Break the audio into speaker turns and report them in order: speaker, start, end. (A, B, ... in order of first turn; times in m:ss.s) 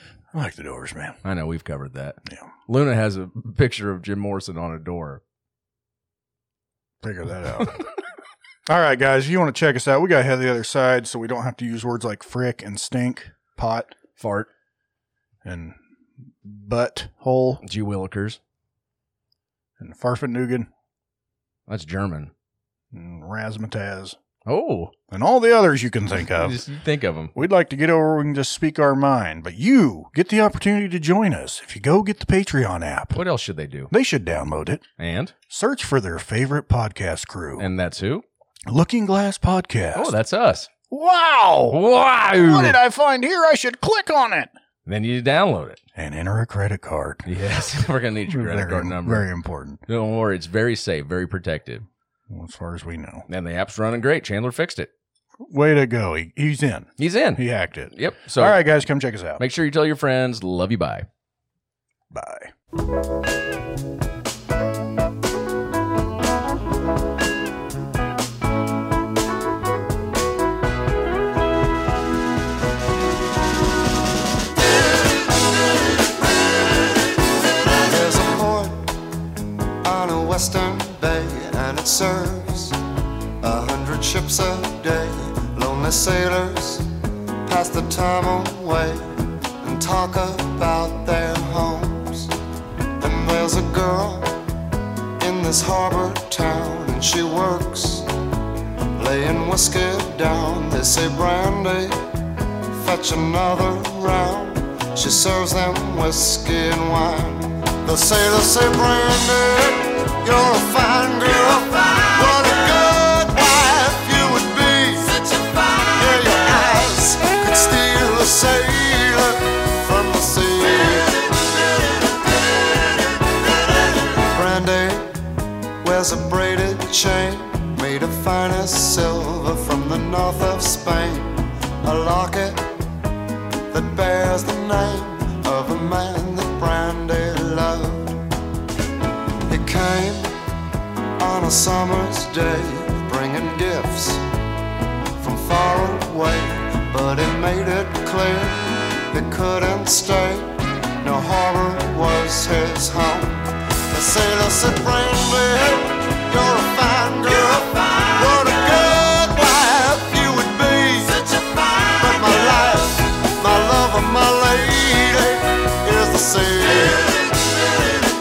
0:00.3-0:01.2 A
0:01.2-0:05.2 B
0:02.3-0:02.5 A
0:07.0-0:07.8 A
0:08.7-0:13.9 A
0:14.2-0:14.5 B
0:15.4-0:17.6 A
0:17.6-0:18.4 B
0:19.8-0:20.7 A
0:21.7-0:22.3 B
0:22.9-0:24.2 A
0:24.5-0:24.9 B
0:25.1-0:26.6 A
0:26.4-0:27.4 B
0:27.4-0:33.2 A
0:33.1-0:33.9 B
0:33.9-0:34.8 A
0:35.0-0:35.3 B
0:35.5-0:37.7 A
0:37.6-0:38.2 B
0:38.7-0:40.2 A
0:40.0-0:40.7 B
0:40.9-0:41.8 A
0:41.7-0:42.8 B
0:42.4-0:44.5 A
0:44.9-0:45.8 B
0:46.0-0:47.3 A
0:47.3-0:49.3 B
0:48.3-0:49.8 A
0:49.9-0:51.8 B
0:52.3-0:53.2 A
0:53.3-0:54.9 B
0:55.4-0:59.4 A
0:57.0-0:58.6 B
0:59.4-1:01.1 B
1:02.1-1:02.5 A
1:17.8-1:18.9 C
1:19.8-1:22.8 C
1:23.4-1:26.9 C
1:27.4-1:32.3 C
1:33.0-1:34.4 C
1:35.2-1:38.1 C
1:39.0-1:42.0 C
1:42.7-2:01.3 C
2:04.0-2:05.2 C
2:05.8-2:12.7 C
2:13.7-2:18.2 C
2:19.5-2:20.3 C
2:21.2-2:24.2 C
2:25.2-2:41.2 C
2:41.7-2:47.4 C